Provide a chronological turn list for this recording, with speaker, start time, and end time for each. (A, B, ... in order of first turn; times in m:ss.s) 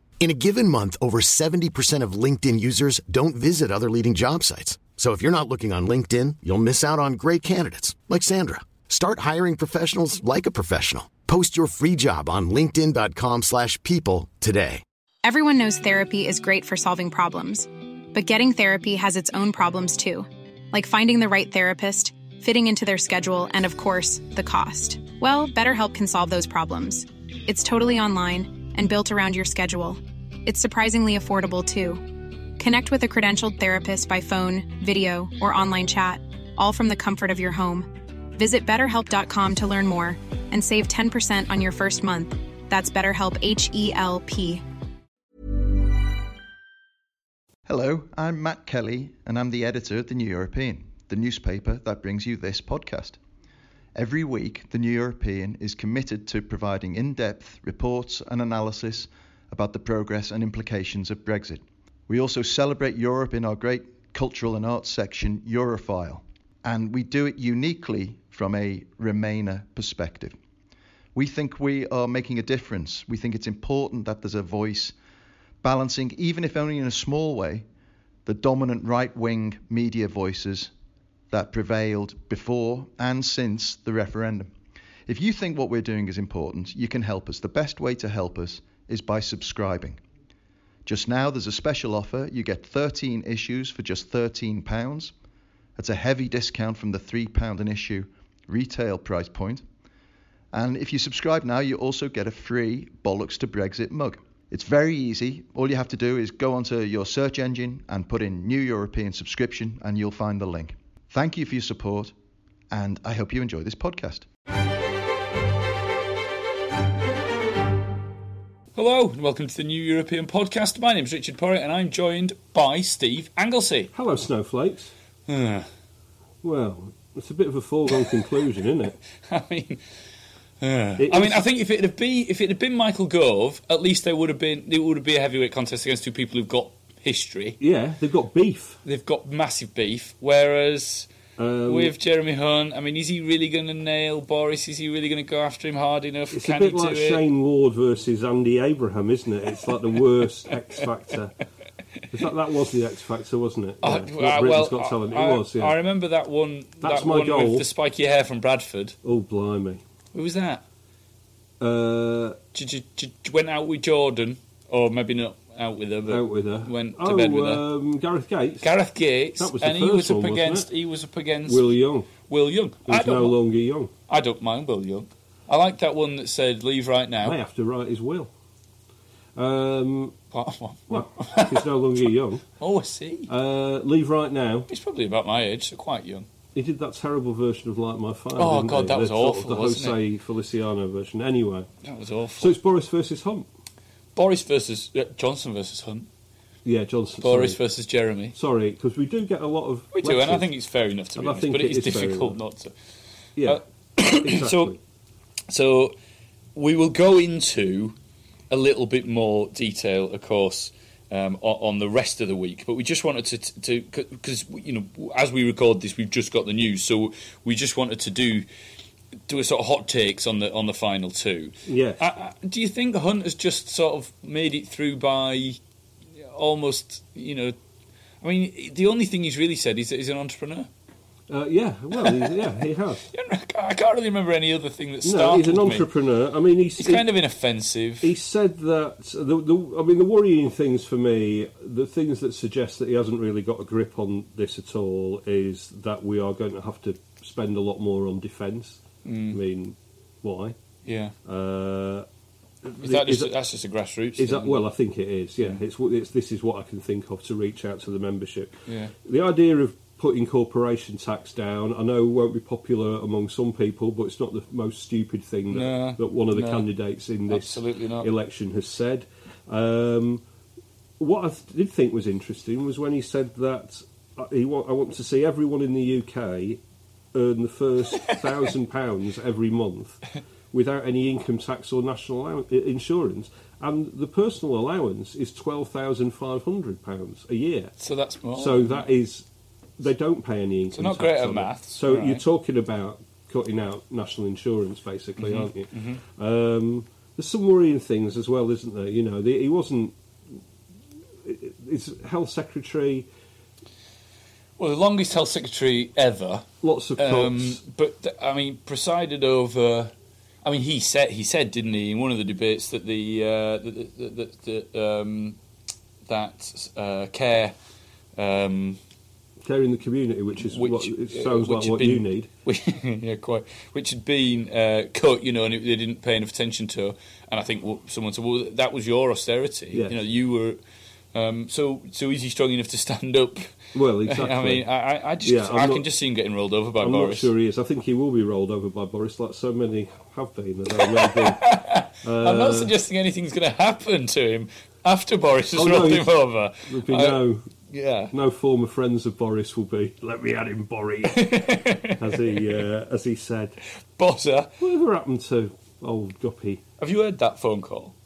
0:00.2-0:14.8 A
0:15.2-0:32.0 B
0:32.6-0:44.6 B
0:47.7-0:53.2 C
0:54.0-1:10.4 C
1:11.2-1:14.9 C
1:15.6-1:17.6 C
1:18.3-1:20.7 C
1:21.3-1:24.5 C
1:25.1-1:30.0 C
1:30.9-1:35.1 C
1:35.8-1:39.6 C
1:40.5-1:52.1 C
1:52.7-1:54.3 C
1:58.8-2:03.9 D
2:03.9-2:04.9 E
2:05.3-2:05.7 D
2:06.4-2:09.0 E
2:09.2-2:09.8 D
2:10.6-2:17.6 D
2:11.0-2:11.4 E
2:17.6-2:18.8 E
2:18.8-2:21.1 D
2:21.4-2:21.9 E
2:21.7-2:27.2 D
2:26.3-2:31.4 E
2:32.1-2:35.8 E
2:33.8-2:39.0 D
2:36.8-2:37.7 E
2:39.0-2:39.8 E
2:40.1-2:40.6 D
2:41.6-2:42.4 E
2:42.5-2:47.7 D
2:46.1-2:48.7 E
2:48.6-2:53.4 D
2:49.4-2:50.7 E
2:51.5-2:52.1 E
2:52.9-2:53.9 E
2:54.1-2:57.4 D
2:57.2-2:58.3 E
2:59.4-3:00.2 E
3:00.3-3:01.7 D
3:00.9-3:02.4 E
3:02.6-3:03.3 D
3:03.3-3:04.7 E
3:04.7-3:06.3 D
3:06.6-3:11.7 E
3:08.4-3:10.0 D
3:11.8-3:12.6 D
3:12.4-3:13.5 E
3:14.2-3:16.1 D
3:16.6-3:17.6 E
3:17.2-3:18.4 D
3:18.3-3:20.5 E
3:19.9-3:22.7 D
3:21.2-3:22.4 E
3:23.4-3:23.6 E
3:23.4-3:24.8 D
3:24.2-3:24.8 E
3:25.5-3:26.0 D
3:26.6-3:28.0 D
3:28.5-3:38.5 D
3:39.3-3:45.6 D
3:41.7-3:42.0 E
3:46.2-3:47.6 D
3:48.2-3:50.7 D
3:51.3-3:53.1 E
3:52.0-3:52.4 D
3:53.1-3:55.9 D
3:55.0-3:57.1 E
3:56.8-3:58.1 D
3:58.0-4:10.6 E
4:09.0-4:09.4 D
4:10.8-4:11.2 D
4:11.2-4:12.1 E
4:12.6-4:13.3 E
4:12.8-4:14.7 D
4:14.2-4:30.2 E
4:18.7-4:18.9 D
4:25.5-4:26.7 D
4:27.3-4:28.1 D
4:31.0-4:36.6 E
4:37.1-4:47.7 E
4:47.8-4:48.9 D
4:48.3-4:49.3 E
4:49.8-5:00.0 E
4:50.7-4:52.2 D
4:55.2-4:56.0 D
5:01.2-5:03.1 E
5:04.6-5:09.9 D
5:06.6-5:07.6 E
5:10.4-5:15.4 D
5:16.1-5:17.6 D
5:18.2-5:18.8 D
5:19.4-5:22.3 E
5:20.4-5:30.6 D
5:29.7-5:30.0 E
5:31.1-5:37.3 D
5:33.7-5:34.6 E
5:35.2-5:35.9 E
5:36.8-5:42.7 E
5:40.7-5:48.1 D
5:45.5-5:46.1 E
5:46.6-5:47.5 E
5:48.1-5:53.6 E
5:51.1-5:52.6 D
5:54.0-5:54.5 D
5:54.6-5:56.6 E
5:56.8-5:57.9 D